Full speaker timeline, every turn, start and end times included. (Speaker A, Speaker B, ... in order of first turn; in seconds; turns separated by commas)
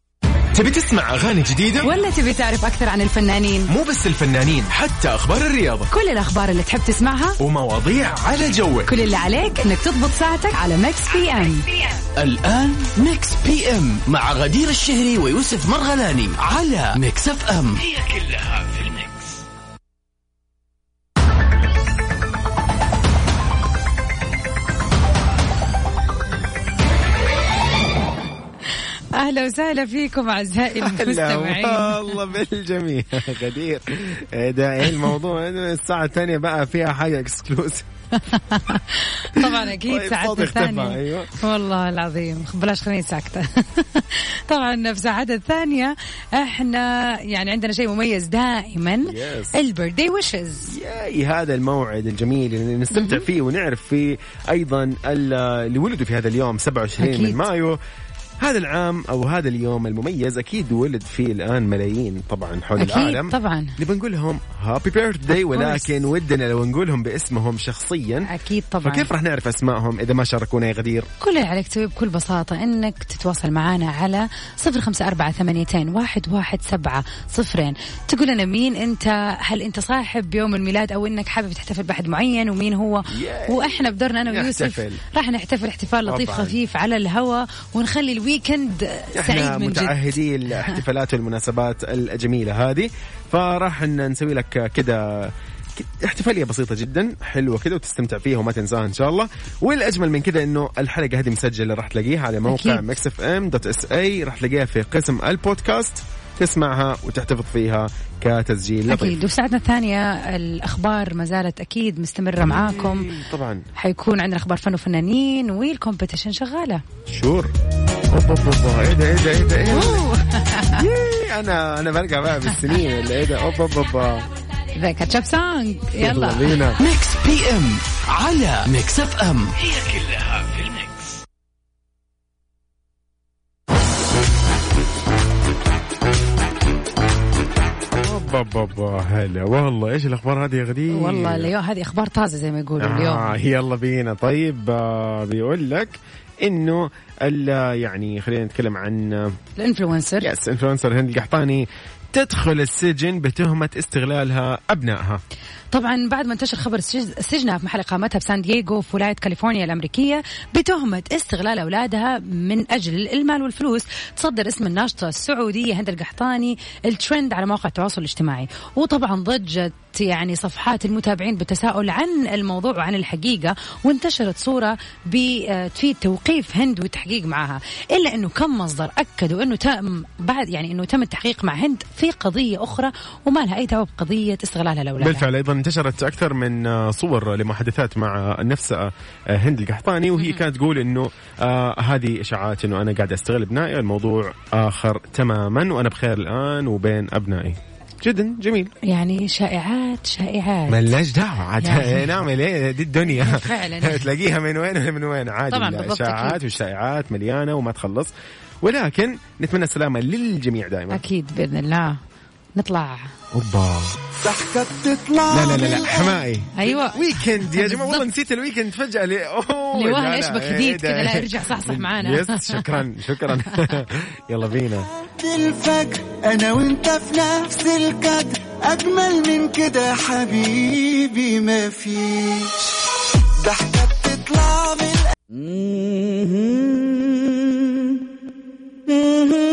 Speaker A: 0.5-1.9, Speaker B: 1.8-3.7, Speaker A: 3.7-5.9, Speaker B: 5.9-7.4, Speaker A: 7.4-8.9, Speaker B: 8.8-11.7, Speaker C: 12.2-19.1, Speaker B: 29.1-32.2, Speaker A: 30.8-37.9, Speaker B: 38.1-50.7, Speaker A: 39.3-41.4, Speaker A: 49.0-49.6, Speaker A: 50.7-57.8, Speaker B: 52.9-53.2, Speaker B: 57.0-57.4, Speaker A: 58.4-68.3, Speaker B: 62.8-63.8, Speaker B: 65.5-65.9, Speaker B: 68.2-69.1, Speaker A: 68.8-71.1, Speaker B: 71.2-90.8, Speaker A: 83.1-85.0, Speaker A: 86.0-86.6, Speaker A: 89.1-109.2, Speaker B: 102.5-102.8, Speaker B: 108.9-113.1, Speaker A: 112.4-113.6, Speaker B: 113.8-116.8, Speaker A: 117.1-117.5, Speaker A: 118.1-120.1, Speaker B: 119.7-120.8, Speaker A: 120.7-124.3, Speaker B: 124.8-126.7, Speaker A: 126.0-126.8, Speaker C: 126.8-130.8, Speaker A: 138.0-141.5, Speaker B: 140.9-143.4, Speaker A: 142.8-149.4, Speaker B: 149.6-150.3, Speaker A: 150.2-155.2, Speaker B: 155.7-185.2, Speaker A: 185.0-198.7, Speaker B: 198.8-200.9, Speaker A: 200.7-211.0, Speaker B: 201.6-202.1, Speaker B: 203.1-204.1, Speaker B: 205.5-206.4, Speaker B: 210.9-212.0, Speaker B: 212.5-213.1, Speaker A: 213.3-214.0, Speaker D: 214.2-216.2, Speaker A: 215.3-224.9, Speaker B: 216.6-218.1, Speaker B: 219.7-222.8, Speaker D: 225.2-232.7, Speaker D: 233.4-235.1